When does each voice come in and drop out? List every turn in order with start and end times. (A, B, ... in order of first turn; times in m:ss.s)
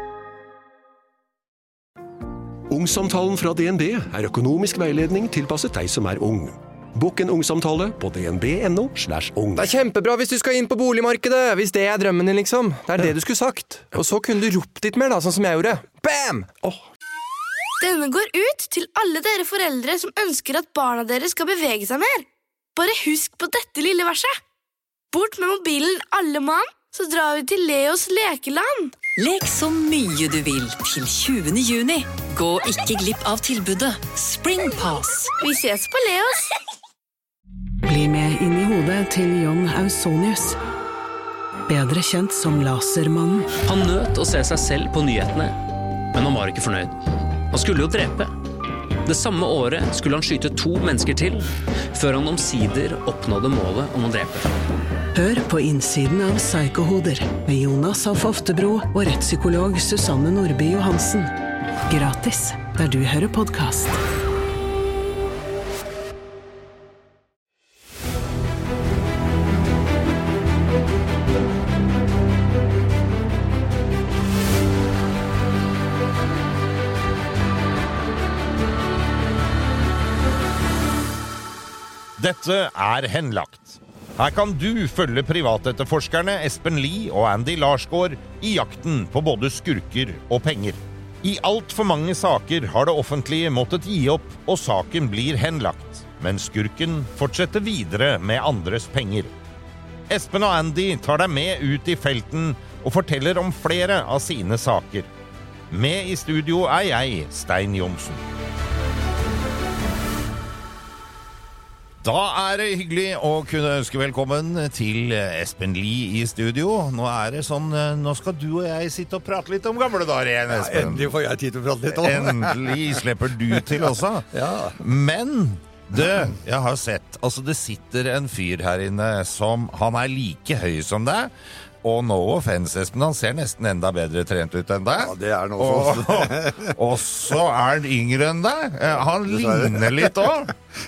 0:02.7-0:09.7 A
0:09.6-0:16.8 B
0:17.8-0:24.4 C
0:25.1-0:29.0 C
0:29.2-0:35.3 D
0:35.4-0:36.5 C
0:37.8-0:40.6 E
0:41.7-0:43.5 E
0:43.6-0:45.6 F
0:46.1-0:47.0 F
0:47.5-0:48.3 F
0:49.0-0:54.5 F
0:55.2-1:01.3 E
1:01.9-1:04.0 E
1:22.2-1:39.3 G
1:40.1-1:45.1 G
1:45.7-1:48.2 G
1:52.0-2:01.1 G
2:00.5-2:03.0 H
2:02.0-2:11.3 G
2:03.6-2:04.8 H
2:11.8-2:20.5 G
2:15.0-2:16.7 H
2:19.2-2:20.3 H